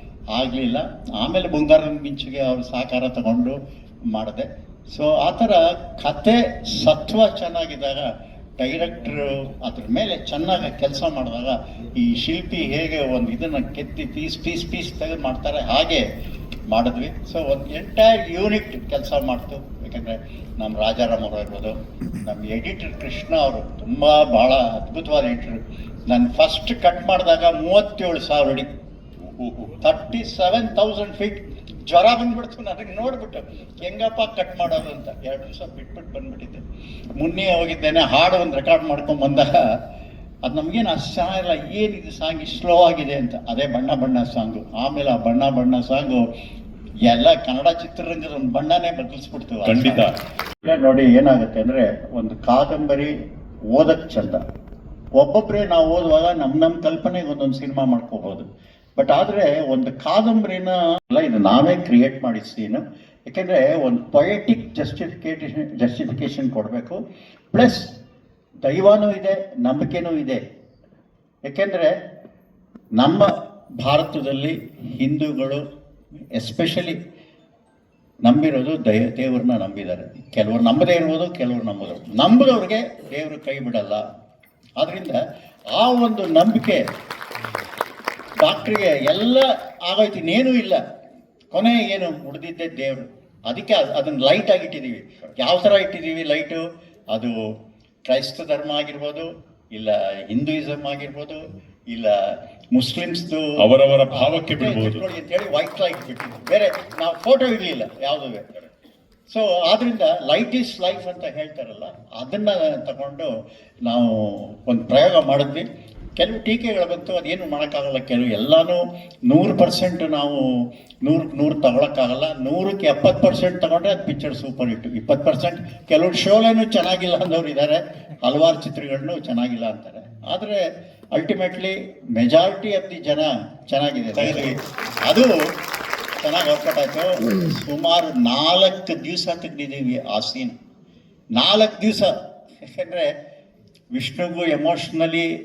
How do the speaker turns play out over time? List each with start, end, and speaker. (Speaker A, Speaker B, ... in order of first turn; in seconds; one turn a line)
Speaker A: 0.3-3.6
Speaker A: 4.1-8.1
Speaker A: 8.6-16.0
Speaker A: 16.7-28.7
Speaker B: 29.4-29.7
Speaker A: 29.8-36.6
Speaker A: 37.2-39.5
Speaker A: 40.4-46.2
Speaker A: 47.0-50.1
Speaker B: 49.6-50.1
Speaker A: 50.6-53.1
Speaker A: 53.7-54.4
Speaker A: 55.2-58.5
Speaker A: 59.0-67.0
Speaker A: 67.5-67.9
Speaker A: 68.6-70.4
Speaker A: 71.4-71.9
Speaker A: 73.0-75.6
Speaker A: 76.3-77.0
Speaker A: 78.2-84.0
Speaker A: 84.8-85.2
Speaker A: 85.7-86.8
Speaker A: 88.4-90.8
Speaker A: 91.5-97.3
Speaker A: 98.0-102.2
Speaker A: 102.7-103.5
Speaker B: 103.6-105.0
Speaker A: 104.1-108.4
Speaker A: 109.3-113.3
Speaker A: 113.8-115.6
Speaker A: 116.2-120.4
Speaker A: 121.0-130.6
Speaker A: 131.1-135.3
Speaker A: 136.2-140.6
Speaker A: 141.3-142.1
Speaker A: 142.6-143.1
Speaker A: 143.9-145.3